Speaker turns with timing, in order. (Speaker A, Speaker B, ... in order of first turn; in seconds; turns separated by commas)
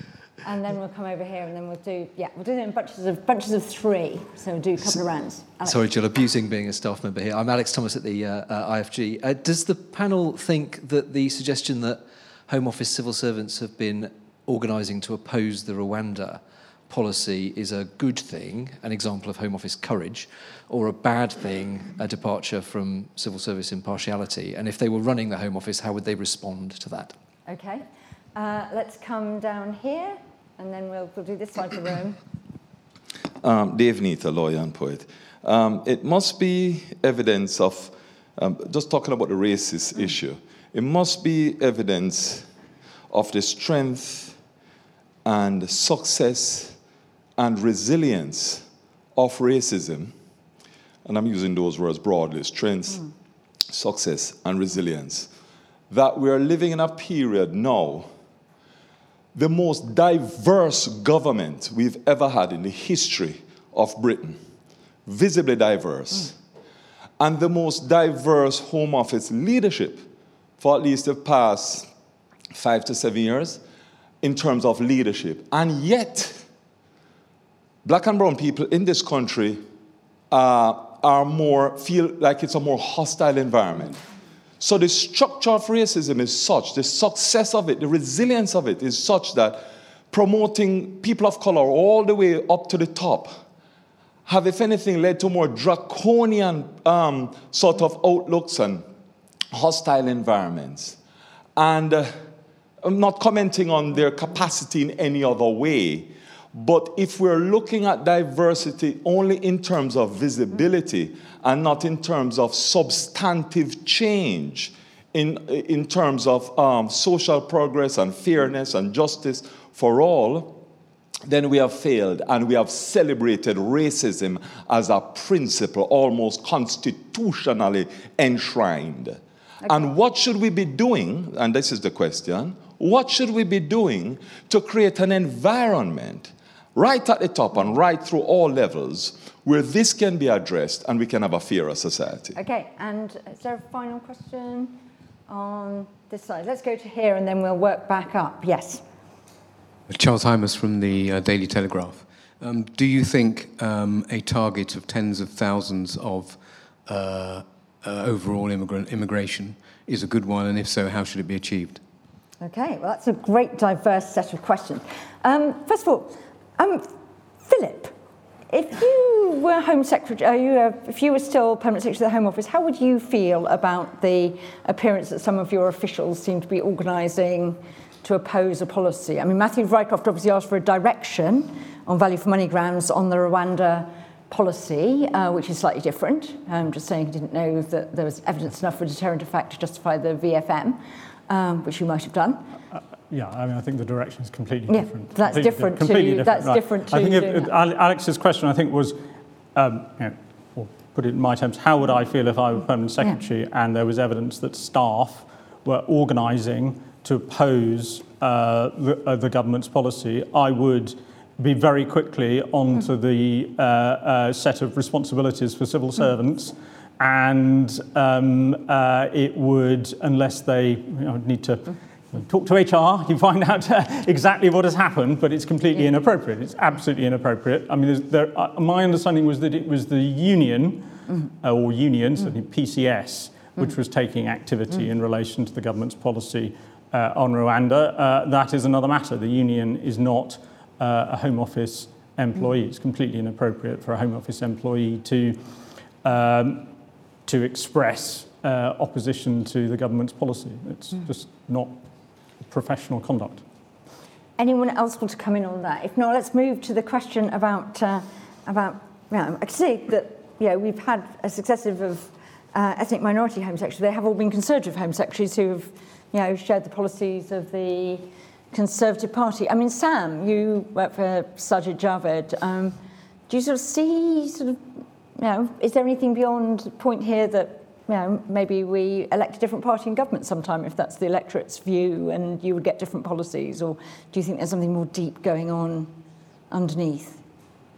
Speaker A: 0.4-5.8, Speaker B: 5.6-27.1, Speaker A: 27.5-32.2, Speaker C: 33.4-42.5, Speaker C: 43.1-44.4, Speaker C: 45.2-46.8, Speaker C: 47.4-50.1, Speaker C: 51.0-53.1, Speaker C: 53.7-55.3, Speaker C: 55.9-58.1, Speaker C: 59.3-64.4, Speaker C: 65.0-66.3, Speaker C: 67.2-70.1, Speaker C: 70.6-71.9, Speaker C: 72.5-73.6, Speaker C: 74.2-76.4, Speaker C: 77.8-79.6, Speaker C: 80.3-84.0, Speaker C: 84.6-93.4, Speaker C: 94.2-98.8, Speaker C: 99.5-101.0, Speaker C: 101.5-102.2, Speaker C: 102.8-120.6, Speaker C: 121.2-142.3, Speaker A: 142.3-148.8, Speaker D: 149.9-161.8, Speaker A: 162.4-166.9, Speaker A: 167.4-167.9, Speaker A: 168.5-192.5, Speaker E: 192.7-199.0, Speaker A: 194.7-197.5, Speaker E: 199.5-245.4, Speaker E: 246.0-246.7, Speaker E: 247.2-251.8, Speaker E: 252.5-253.4, Speaker A: 254.4-272.8, Speaker A: 273.3-274.6, Speaker A: 275.2-285.9, Speaker A: 286.5-287.2